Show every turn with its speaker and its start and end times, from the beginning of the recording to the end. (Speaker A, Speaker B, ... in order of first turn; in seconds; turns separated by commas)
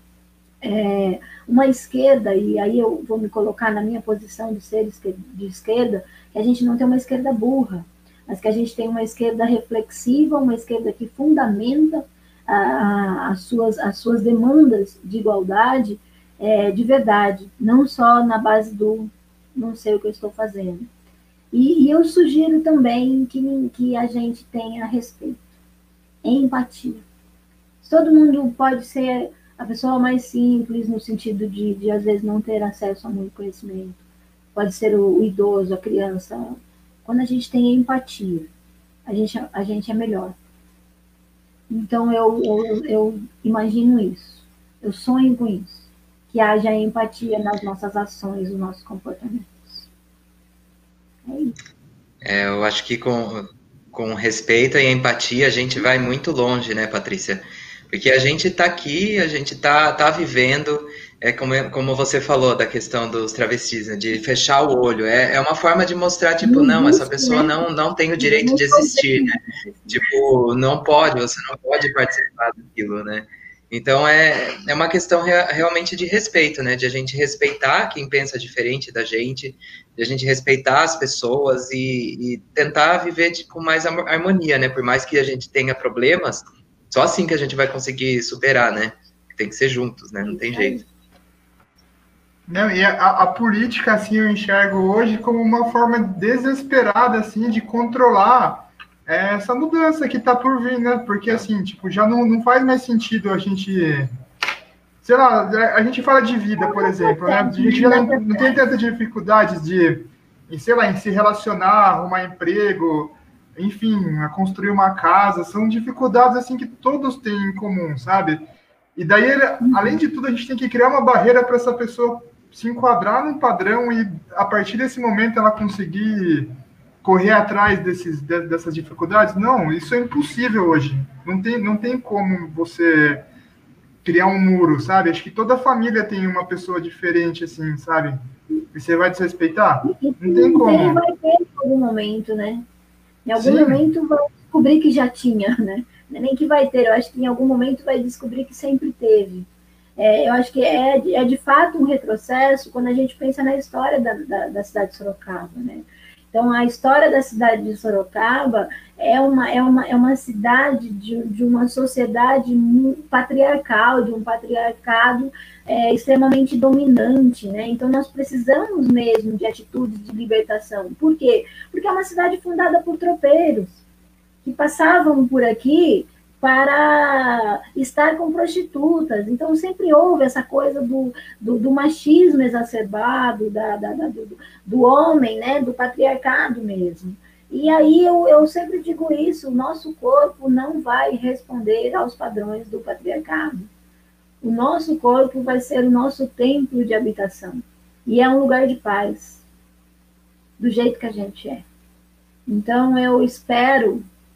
Speaker A: 0.6-20.9, Speaker A: 21.5-25.4, Speaker A: 26.2-27.0, Speaker A: 27.8-34.0, Speaker A: 34.5-38.5, Speaker A: 39.0-40.4, Speaker A: 41.7-49.8, Speaker A: 51.2-51.5, Speaker B: 52.2-69.4, Speaker A: 66.4-67.5, Speaker A: 68.2-70.0, Speaker B: 69.9-90.8, Speaker A: 90.2-90.8, Speaker C: 92.5-104.1, Speaker C: 105.0-118.4, Speaker A: 106.6-108.6, Speaker C: 119.0-133.2, Speaker A: 119.6-120.0, Speaker C: 134.0-138.2, Speaker C: 138.7-141.0, Speaker A: 139.8-142.6, Speaker A: 143.2-173.8, Speaker C: 143.3-143.8, Speaker A: 174.4-193.7, Speaker A: 194.4-199.4, Speaker A: 200.6-201.7, Speaker A: 202.5-204.0